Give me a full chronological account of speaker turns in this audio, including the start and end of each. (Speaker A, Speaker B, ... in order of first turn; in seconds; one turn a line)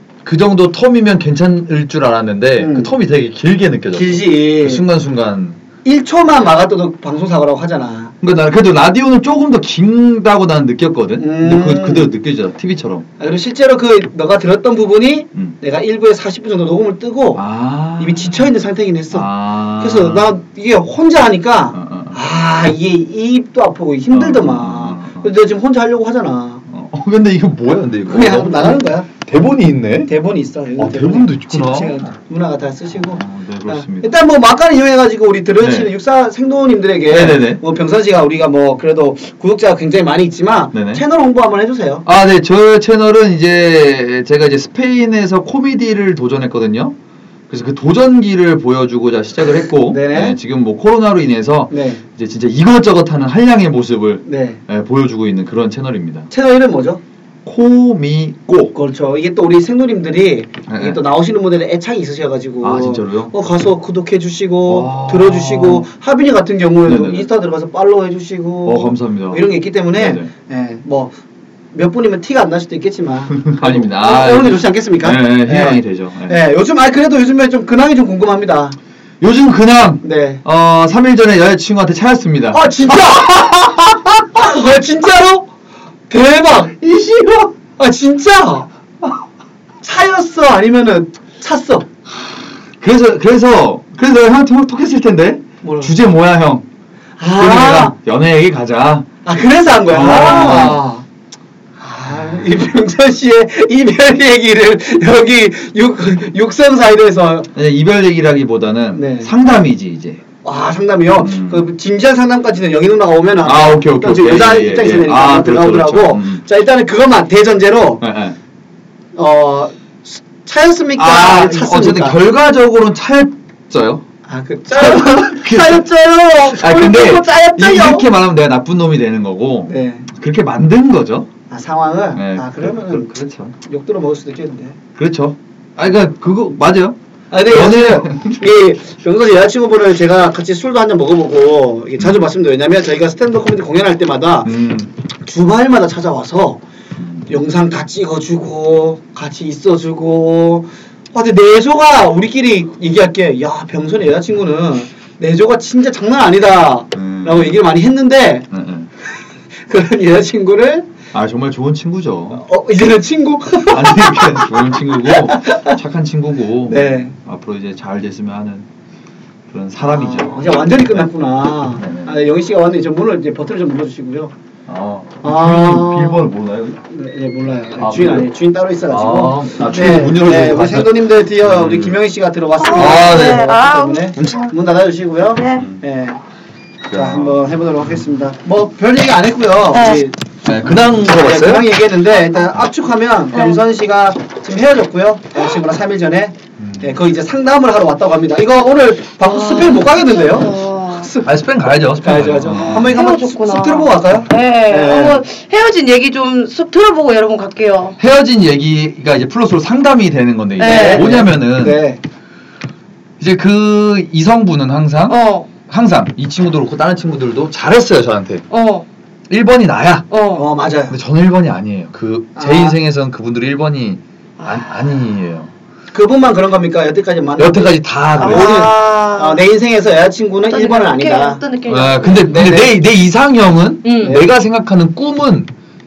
Speaker A: 0.2-5.6
Speaker B: 2.6-2.9
Speaker B: 3.9-4.8
Speaker B: 5.8-8.1
Speaker A: 8.2-13.1
Speaker B: 11.2-12.1
Speaker B: 13.2-17.4
Speaker A: 17.3-18.5
Speaker B: 18.0-26.6
Speaker A: 19.1-20.4
Speaker A: 21.7-22.2
Speaker A: 24.1-25.3
Speaker A: 26.7-30.1
Speaker B: 28.1-29.1
Speaker B: 30.1-42.0
Speaker A: 30.8-32.0
Speaker A: 33.0-34.1
Speaker A: 35.6-35.9
Speaker A: 37.1-37.6
Speaker A: 40.7-41.0
Speaker A: 42.0-46.9
Speaker A: 47.5-56.3
Speaker B: 49.8-50.4
Speaker B: 51.7-52.0
Speaker B: 54.2-54.6
Speaker B: 56.3-57.0
Speaker A: 57.4-58.7
Speaker B: 58.7-71.2
Speaker A: 60.7-61.0
Speaker A: 62.6-63.3
Speaker A: 64.7-65.8
Speaker A: 66.8-67.3
Speaker A: 68.6-70.3
Speaker B: 71.7-78.8
Speaker A: 73.3-76.4
Speaker A: 79.2-83.2
Speaker B: 80.0-80.4
Speaker B: 82.5-85.5
Speaker B: 86.1-86.8
Speaker A: 86.8-87.5
Speaker B: 87.8-88.7
Speaker B: 89.8-91.9
Speaker A: 92.8-96.6
Speaker B: 95.6-95.9
Speaker B: 97.2-97.9
Speaker A: 97.4-99.1
Speaker B: 99.2-101.0
Speaker A: 99.9-100.8
Speaker B: 101.8-107.5
Speaker A: 107.5-110.2
Speaker B: 108.9-109.3
Speaker B: 110.4-118.0
Speaker A: 111.2-111.6
Speaker A: 113.4-116.4
Speaker A: 118.0-118.3
Speaker B: 119.1-122.2
Speaker A: 121.0-124.0
Speaker B: 124.3-128.0
Speaker A: 124.7-125.8
Speaker C: 126.4-127.5
Speaker A: 126.6-131.3
Speaker B: 129.7-130.1
Speaker B: 131.5-133.1
Speaker A: 132.1-133.5
Speaker B: 133.6-134.8
Speaker A: 135.0-138.4
Speaker B: 137.3-144.6
Speaker A: 144.4-144.9
Speaker B: 145.2-146.6
Speaker A: 147.0-147.2
Speaker B: 147.3-158.5
Speaker A: 156.9-157.6
Speaker A: 158.5-158.9
Speaker B: 159.6-160.9
Speaker A: 161.1-162.4
Speaker B: 162.3-165.8
Speaker A: 163.7-168.7
Speaker B: 166.7-167.1
Speaker A: 169.5-171.1
Speaker B: 169.8-174.3
Speaker A: 171.7-172.2
Speaker A: 174.7-176.8
Speaker B: 175.2-176.3
Speaker B: 176.8-186.2
Speaker A: 177.8-178.3
Speaker A: 178.9-182.0
Speaker C: 182.6-184.5
Speaker A: 182.7-183.6
Speaker A: 184.2-184.5
Speaker C: 185.3-185.7
Speaker A: 186.9-188.0
Speaker B: 186.9-190.2
Speaker C: 189.7-190.0
Speaker A: 190.4-191.7
Speaker B: 191.1-201.3
Speaker C: 193.3-193.6
Speaker A: 196.6-197.0
Speaker C: 199.2-201.1
Speaker A: 201.2-203.0
Speaker B: 202.0-205.2
Speaker C: 202.5-208.0
Speaker A: 208.0-211.8
Speaker C: 210.6-211.1
Speaker B: 210.6-212.0
Speaker A: 213.2-218.4
Speaker C: 215.1-215.5
Speaker C: 218.5-218.9
Speaker A: 219.3-220.1
Speaker C: 220.1-220.5
Speaker B: 220.3-221.0
Speaker A: 220.9-225.5
Speaker B: 222.3-222.8
Speaker C: 224.4-224.9
Speaker B: 225.9-231.4
Speaker A: 227.4-228.6
Speaker C: 228.2-229.4
Speaker C: 230.5-232.4
Speaker A: 231.7-235.5
Speaker B: 232.1-232.8
Speaker C: 233.8-234.2
Speaker B: 234.0-234.3